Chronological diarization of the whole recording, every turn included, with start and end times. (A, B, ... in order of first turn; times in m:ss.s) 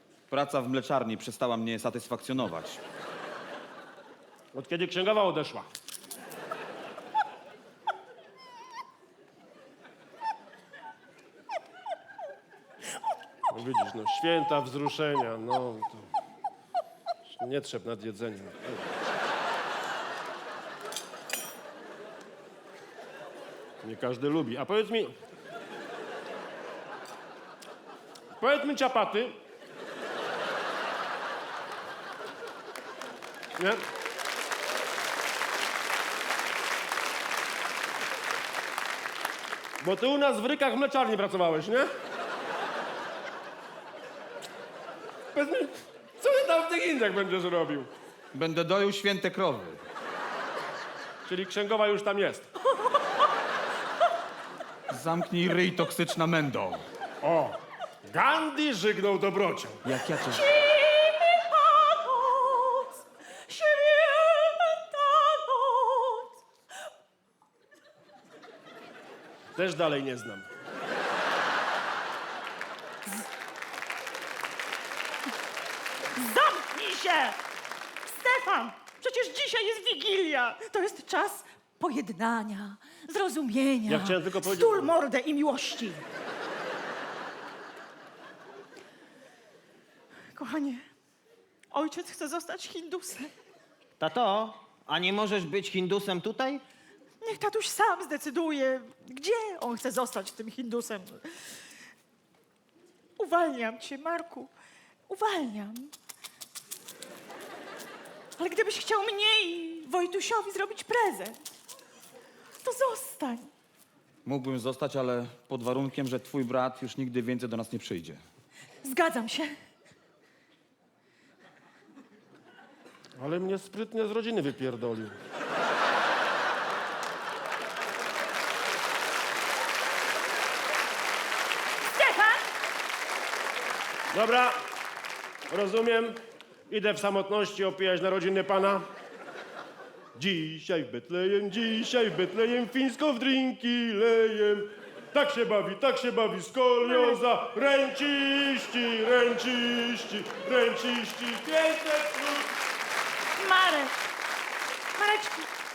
0:00.3-0:02.8 A
0:04.5-0:05.7 B
0:13.5-0:16.1 B
0:17.3-0:18.9 B
0:23.8-0:25.1 B
0:28.4-0:29.4 B
0:39.8-0:41.9 B
0:45.3-0:47.9 B
0:48.3-0:49.8 A
0:51.2-0:52.4 B
0:54.9-0:56.8 A
0:57.2-0:59.8 B
0:59.8-1:00.4 A
1:00.2-1:06.3 C
1:09.5-1:10.5 B
1:16.1-1:17.4 C
1:18.0-1:26.0 C
1:23.9-1:24.9 B
1:30.3-1:30.9 C
1:31.7-1:33.3 C
1:34.0-1:36.6 D
1:37.2-1:41.6 C
1:43.2-1:44.5 C
1:45.1-1:45.9 C
1:48.4-1:51.4 C
1:52.6-1:53.5 C
1:54.2-1:58.2 A
1:58.8-1:59.5 C
2:03.2-2:05.2 B
2:11.8-2:12.4 C
2:14.1-2:14.6 B
2:15.5-2:18.8 B
2:20.2-2:32.5 B
2:26.8-2:27.2 C
2:33.4-2:33.9 C
2:34.9-2:35.5 C